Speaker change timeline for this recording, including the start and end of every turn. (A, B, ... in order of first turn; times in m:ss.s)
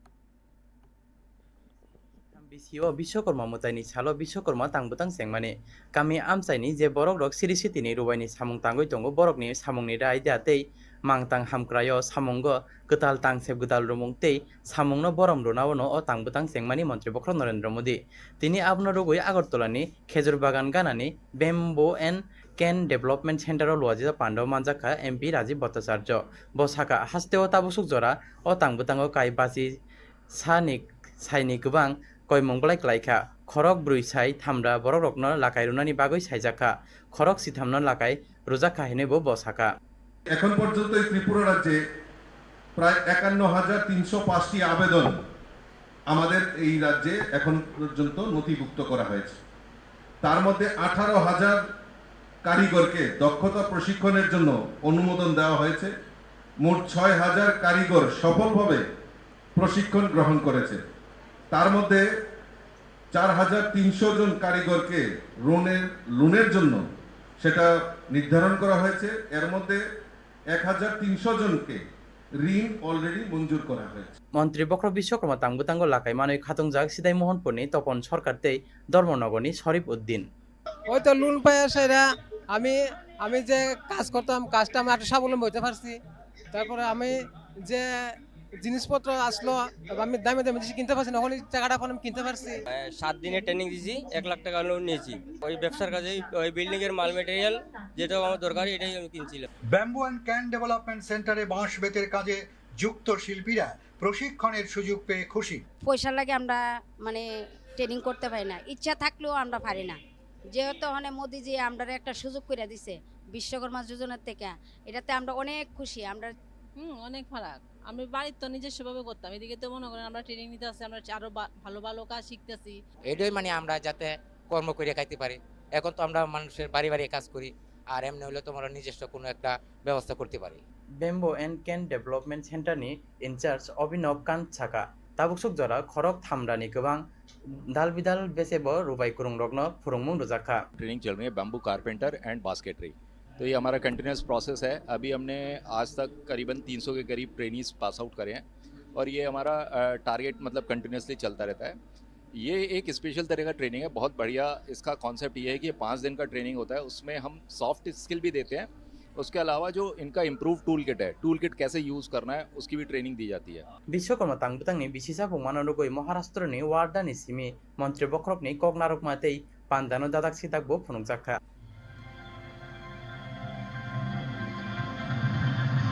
0:02.4-0:29.7 A
0:30.4-0:39.7 A
0:40.3-0:41.8 B
0:42.8-0:45.2 B
0:46.1-0:49.4 B
0:50.2-0:51.6 B
0:52.4-0:55.9 B
0:56.6-0:58.8 B
0:59.6-1:00.8 B
1:01.5-1:02.0 B
1:03.1-1:06.8 B
1:07.4-1:09.8 B
1:10.5-1:11.8 B
1:12.4-1:14.1 B
1:14.4-1:20.2 A
1:20.9-1:22.0 C
1:23.3-1:26.0 C
1:26.6-1:27.1 C
1:28.6-1:32.5 C
1:32.7-1:39.4 D
1:39.7-1:45.6 E
1:45.8-1:50.0 F
1:50.5-1:56.3 F
1:56.8-2:02.8 G
2:03.0-2:10.6 H
2:11.0-2:17.0 A
2:17.7-2:20.6 A
2:20.8-2:31.8 I
2:32.3-2:43.6 I
2:43.9-2:51.4 A